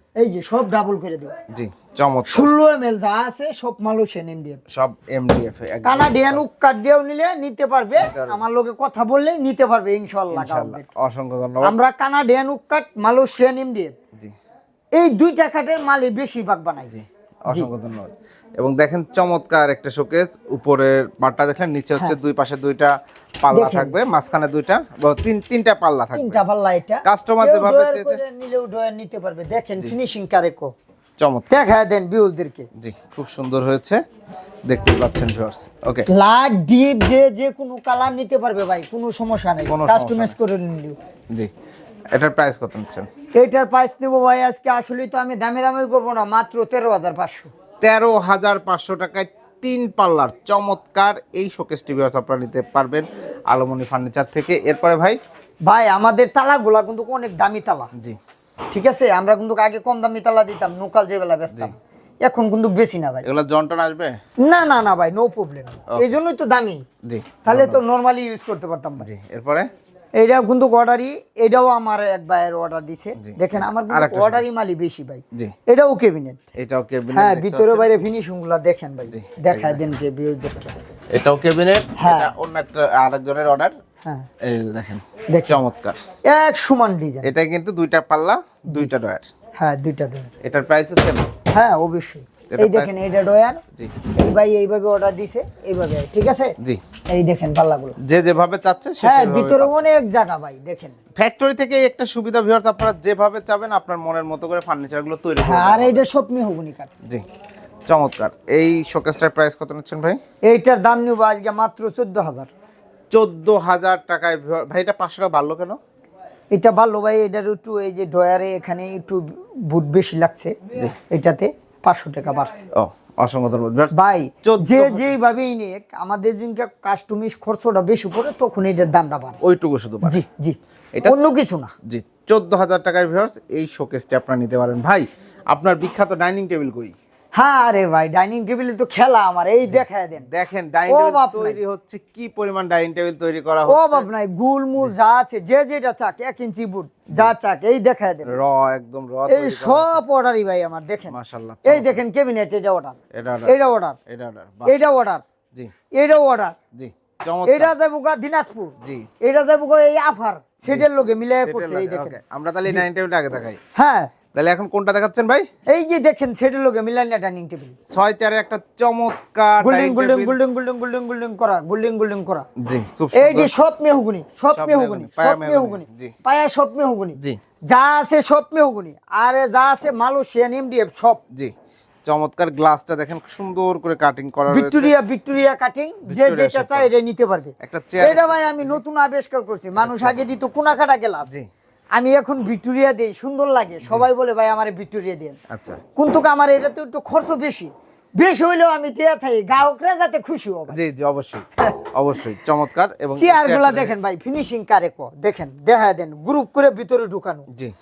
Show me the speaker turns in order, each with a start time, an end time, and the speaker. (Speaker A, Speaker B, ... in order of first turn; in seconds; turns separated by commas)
Speaker A: 0.2-1.4, Speaker B: 1.5-2.5, Speaker A: 2.3-4.6, Speaker B: 4.7-6.4, Speaker A: 5.8-10.9, Speaker B: 8.0-8.4, Speaker B: 10.3-11.7, Speaker A: 11.6-13.9, Speaker A: 14.9-16.9, Speaker B: 16.9-26.4, Speaker A: 23.5-24.0, Speaker A: 26.1-30.7, Speaker B: 27.1-28.2, Speaker B: 31.2-31.6, Speaker A: 31.5-32.7, Speaker B: 32.8-34.0, Speaker B: 34.7-36.1, Speaker A: 36.1-41.0, Speaker B: 39.7-40.4, Speaker B: 42.1-43.1, Speaker A: 43.4-47.5, Speaker B: 47.8-55.2, Speaker A: 55.7-57.9, Speaker A: 58.7-63.2, Speaker B: 63.2-64.2, Speaker A: 64.4-66.8, Speaker B: 67.0-67.8, Speaker A: 67.5-69.1, Speaker B: 69.0-69.7, Speaker A: 70.2-76.4, Speaker B: 73.2-74.5, Speaker B: 76.5-78.0, Speaker A: 77.1-80.8, Speaker B: 79.1-79.8, Speaker B: 81.1-83.8, Speaker A: 82.0-82.3, Speaker A: 84.0-84.3, Speaker B: 84.4-86.0, Speaker A: 85.3-85.6, Speaker A: 86.2-87.3, Speaker B: 87.2-89.3, Speaker A: 89.6-90.3, Speaker B: 90.4-91.3, Speaker A: 91.5-96.5, Speaker B: 92.5-92.9, Speaker A: 97.1-98.0, Speaker B: 98.0-99.8, Speaker A: 99.0-101.0, Speaker B: 101.2-106.0, Speaker A: 105.4-106.9, Speaker B: 107.9-110.2, Speaker A: 110.5-112.5, Speaker B: 113.1-115.8, Speaker A: 116.5-120.6, Speaker A: 121.1-122.6, Speaker B: 122.8-125.1, Speaker A: 123.9-129.4, Speaker B: 129.4-130.2, Speaker A: 130.0-131.7, Speaker B: 131.9-136.9, Speaker A: 137.3-140.3, Speaker B: 139.7-144.1, Speaker A: 140.9-141.6, Speaker A: 143.7-148.4, Speaker B: 148.3-150.0, Speaker A: 149.3-154.0, Speaker B: 151.1-152.0, Speaker B: 153.1-153.5, Speaker B: 154.1-154.8, Speaker A: 154.7-155.2, Speaker A: 155.9-156.6, Speaker B: 156.7-157.7, Speaker A: 157.4-162.8, Speaker B: 161.4-163.6, Speaker A: 163.8-164.1, Speaker B: 164.3-165.5, Speaker A: 165.7-167.8, Speaker B: 167.9-170.4, Speaker A: 169.6-172.5, Speaker B: 172.6-173.6, Speaker A: 173.1-181.2, Speaker B: 174.5-176.1, Speaker B: 182.1-184.9, Speaker A: 184.5-191.3, Speaker B: 186.1-186.9, Speaker B: 187.6-188.8, Speaker B: 189.8-190.2, Speaker A: 191.9-195.4, Speaker B: 195.5-195.8, Speaker A: 196.0-200.8, Speaker B: 200.7-203.9, Speaker A: 203.2-207.5